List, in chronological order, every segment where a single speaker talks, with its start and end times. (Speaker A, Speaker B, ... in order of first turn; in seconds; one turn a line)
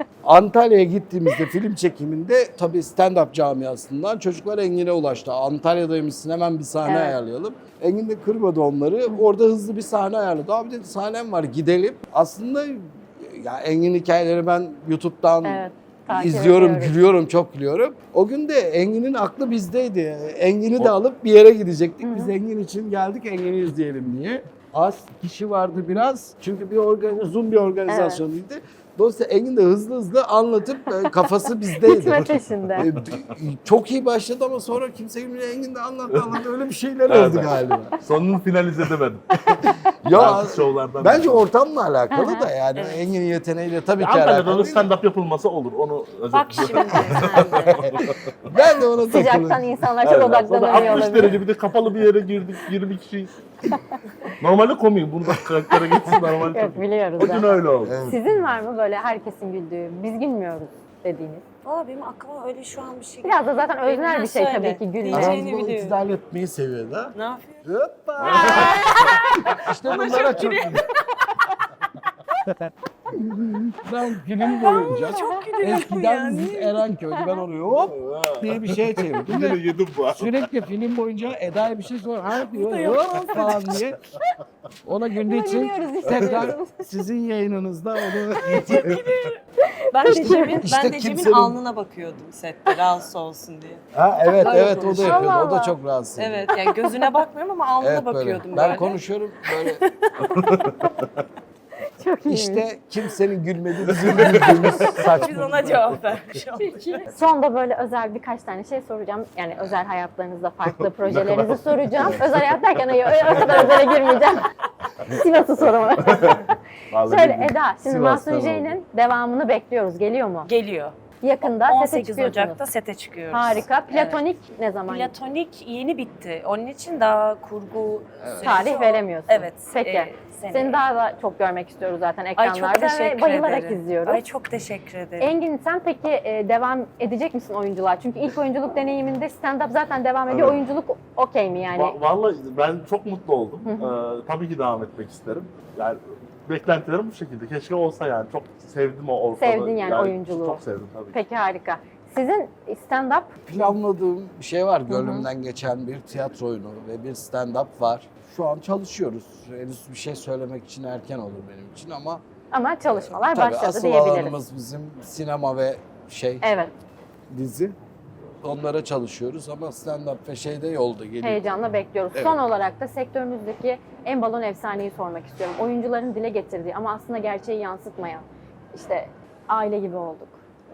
Speaker A: 0.2-38.0
Speaker B: 6.8-7.2
Speaker B: 15.4-17.0
Speaker B: 22.0-22.3
Speaker B: 27.9-28.2
Speaker B: 31.7-32.9
Speaker C: 37.1-37.5
Speaker C: 38.0-39.5
Speaker A: 39.7-44.9
Speaker C: 40.1-41.4
Speaker B: 42.1-42.5
Speaker D: 42.7-43.0
Speaker C: 44.0-48.5
Speaker D: 46.3-47.8
Speaker A: 46.9-49.9
Speaker B: 49.0-51.4
Speaker C: 50.0-53.3
Speaker A: 50.7-51.0
Speaker B: 53.7-54.0
Speaker C: 54.4-58.0
Speaker B: 56.5-61.4
Speaker A: 57.8-58.3
Speaker D: 61.6-66.0
Speaker B: 63.2-65.5
Speaker A: 65.1-70.9
Speaker D: 67.1-67.7
Speaker C: 68.2-68.7
Speaker D: 68.4-69.2
Speaker D: 69.8-70.9
Speaker A: 72.5-79.6
Speaker D: 74.5-76.8
Speaker C: 77.8-80.3
Speaker A: 80.1-84.0
Speaker D: 82.3-83.8
Speaker B: 83.3-83.6
Speaker A: 84.8-89.0
Speaker B: 85.2-86.8
Speaker D: 88.5-89.4
Speaker B: 88.5-88.8
Speaker B: 89.6-90.6
Speaker D: 89.9-93.8
Speaker A: 90.0-91.6
Speaker A: 93.9-96.5
Speaker D: 94.3-95.4
Speaker B: 94.4-95.8
Speaker D: 96.2-99.0
Speaker B: 96.9-97.2
Speaker A: 97.8-99.8
Speaker D: 99.5-100.9
Speaker C: 100.3-100.9
Speaker B: 101.8-102.7
Speaker A: 102.3-105.8
Speaker C: 104.0-104.7
Speaker D: 104.2-107.1
Speaker B: 106.6-114.5
Speaker C: 110.8-112.3
Speaker C: 113.1-114.0
Speaker B: 115.0-116.5
Speaker C: 116.0-117.5
Speaker B: 117.0-120.5
Speaker A: 117.8-118.8
Speaker D: 120.4-124.2
Speaker B: 121.2-122.6
Speaker B: 123.3-125.1
Speaker D: 124.8-130.8
Speaker A: 128.2-128.7
Speaker B: 128.4-134.2
Speaker D: 132.4-135.3
Speaker B: 135.2-142.0
Speaker C: 140.3-140.6
Speaker C: 141.7-151.2
Speaker B: 143.7-143.9
Speaker B: 149.4-150.6
Speaker B: 151.1-153.7
Speaker A: 153.4-162.2
Speaker B: 154.9-155.3
Speaker B: 162.5-164.3
Speaker A: 162.9-166.4
Speaker B: 166.4-166.7
Speaker A: 167.3-167.7
Speaker A: 168.4-171.6
Speaker B: 171.2-180.4
Speaker A: 172.1-172.4